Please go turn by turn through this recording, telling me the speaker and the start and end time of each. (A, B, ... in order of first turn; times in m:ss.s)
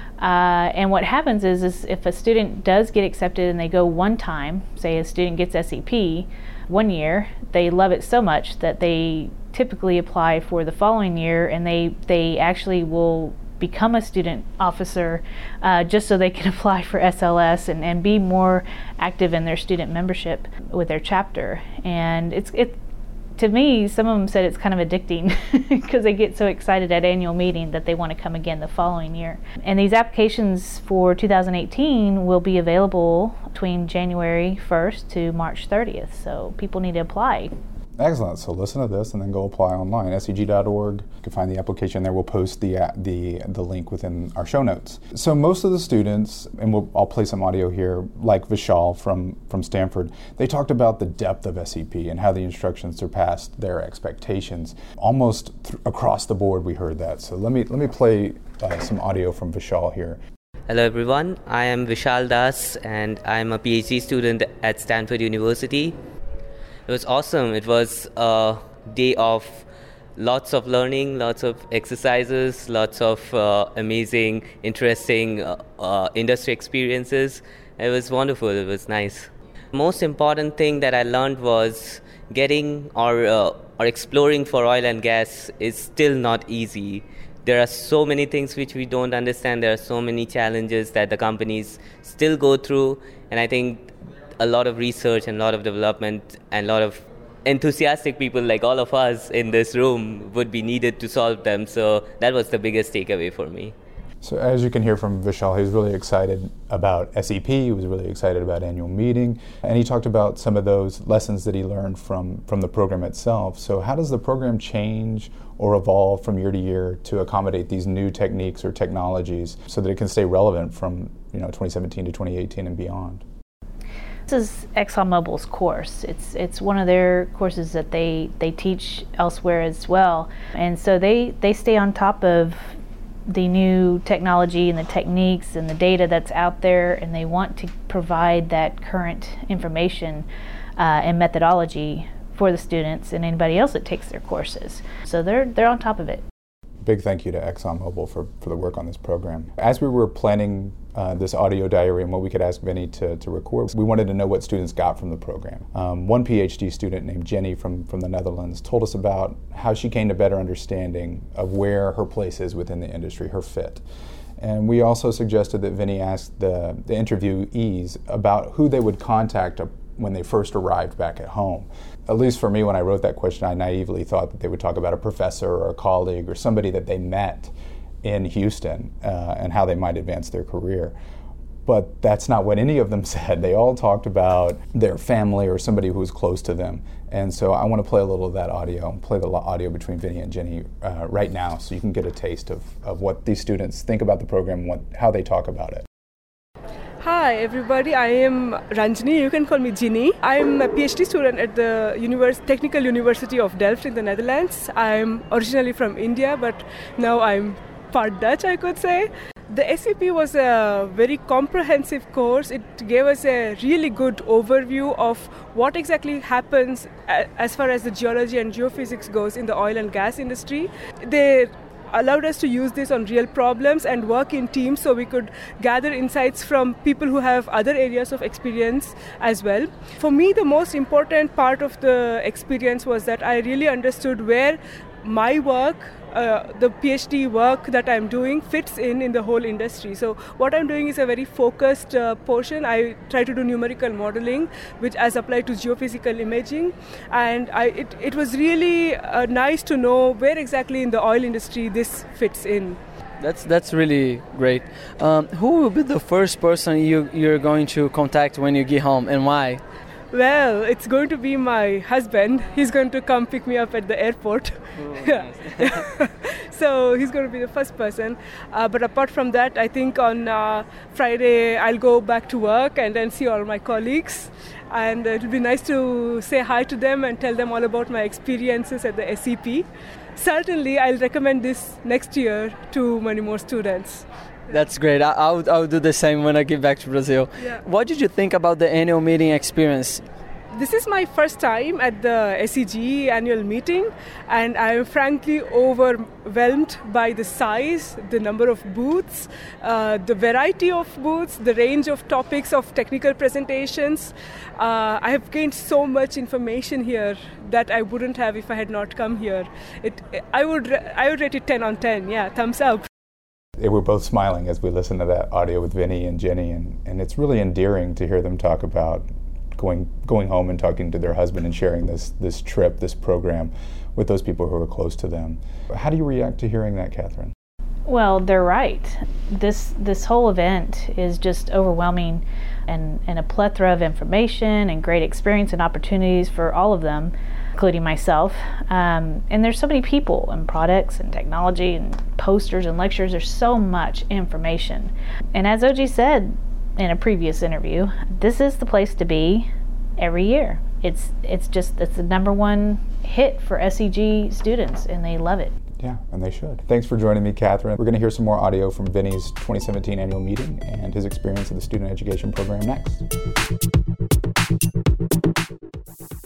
0:00.2-0:22.8 A
0:23.4-0:37.5 A
0:38.0-1:00.2 B
1:00.7-1:06.0 C
1:06.9-1:43.8 C
1:44.2-2:03.2 B
2:04.3-2:12.7 A
2:13.3-2:20.3 A
2:20.8-2:26.2 A
2:26.8-2:43.8 B
2:44.4-3:00.9 B
3:01.6-3:15.8 B
3:17.0-4:12.8 D
4:13.2-4:19.6 E
4:20.1-4:44.1 D
4:44.5-4:50.0 E
4:50.5-5:12.9 D
5:13.6-5:27.3 B
5:27.9-5:55.5 A
5:55.8-6:03.0 B